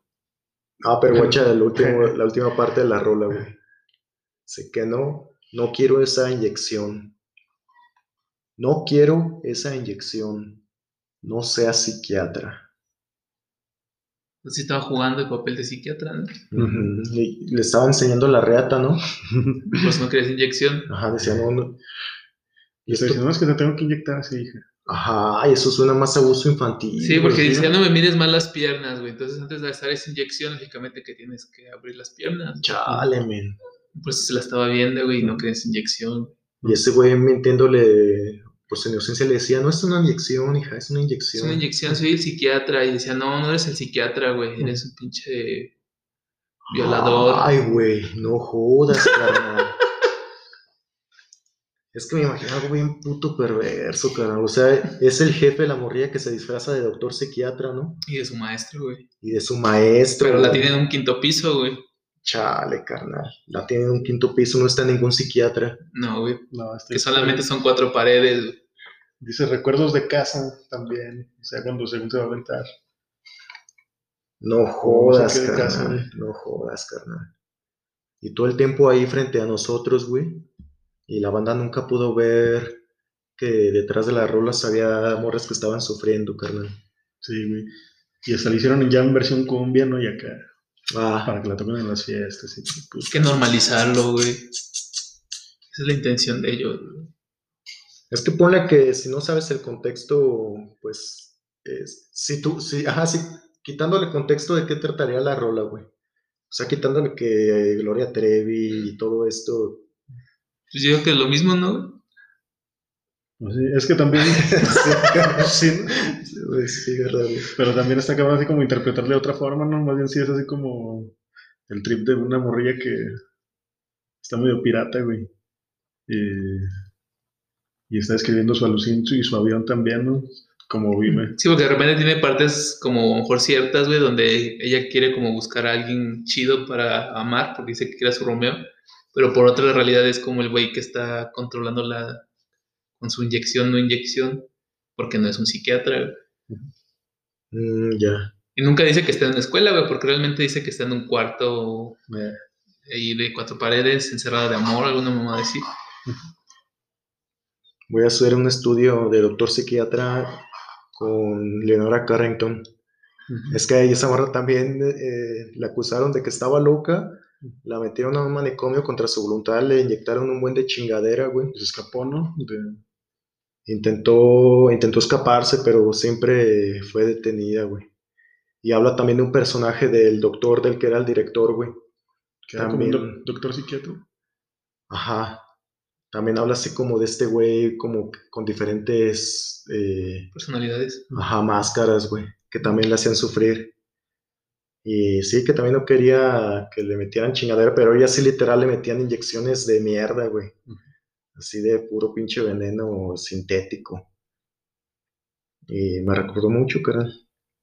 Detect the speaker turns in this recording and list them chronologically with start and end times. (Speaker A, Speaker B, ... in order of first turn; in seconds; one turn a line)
Speaker A: 0.8-3.6
Speaker B: 1.1-2.2
Speaker A: 4.5-7.2
Speaker A: 8.6-10.6
Speaker A: 11.2-12.7
Speaker C: 14.4-16.4
Speaker A: 16.5-19.0
Speaker B: 16.5-16.9
Speaker C: 19.7-20.9
Speaker A: 20.9-21.8
Speaker A: 22.9-23.2
Speaker B: 22.9-24.6
Speaker A: 24.9-27.5
Speaker C: 27.0-32.9
Speaker B: 27.2-27.7
Speaker A: 32.6-33.6
Speaker C: 33.9-36.3
Speaker A: 36.6-41.6
Speaker C: 41.3-45.7
Speaker A: 46.7-49.8
Speaker C: 46.7-47.6
Speaker A: 51.9-58.0
Speaker C: 58.0-59.0
Speaker A: 59.2-60.7
Speaker C: 60.2-61.8
Speaker A: 62.2-65.8
Speaker C: 65.9-68.6
Speaker B: 66.5-67.5
Speaker B: 69.2-72.7
Speaker A: 74.4-77.3
Speaker B: 74.8-76.1
Speaker A: 78.2-80.5
Speaker A: 81.1-82.8
Speaker A: 83.4-86.8
Speaker B: 87.2-87.7
Speaker B: 88.2-90.5
Speaker A: 90.9-91.3
Speaker B: 91.2-93.4
Speaker C: 93.0-94.5
Speaker C: 95.7-97.1
Speaker A: 98.1-105.9
Speaker A: 106.5-109.8
Speaker C: 110.7-112.0
Speaker B: 113.4-116.2
Speaker A: 114.2-117.5
Speaker B: 117.5-121.1
Speaker B: 121.7-123.2
Speaker B: 124.2-125.3
Speaker B: 126.1-126.7
Speaker B: 127.9-131.3
Speaker C: 131.3-142.2
Speaker C: 143.0-146.2
Speaker A: 147.5-148.3
Speaker C: 148.6-152.0
Speaker B: 152.1-152.4
Speaker C: 152.8-155.7
Speaker A: 157.9-160.4
Speaker A: 160.9-162.6
Speaker B: 163.3-163.6
Speaker A: 163.5-171.5
Speaker B: 171.5-172.8
Speaker A: 173.7-177.9
Speaker A: 178.6-181.8
Speaker B: 182.4-184.0
Speaker A: 182.6-183.2
Speaker A: 184.9-185.4
Speaker A: 186.1-190.3
Speaker C: 190.3-191.1
Speaker A: 191.1-193.7
Speaker A: 194.8-200.6
Speaker A: 201.3-204.1
Speaker A: 205.7-207.1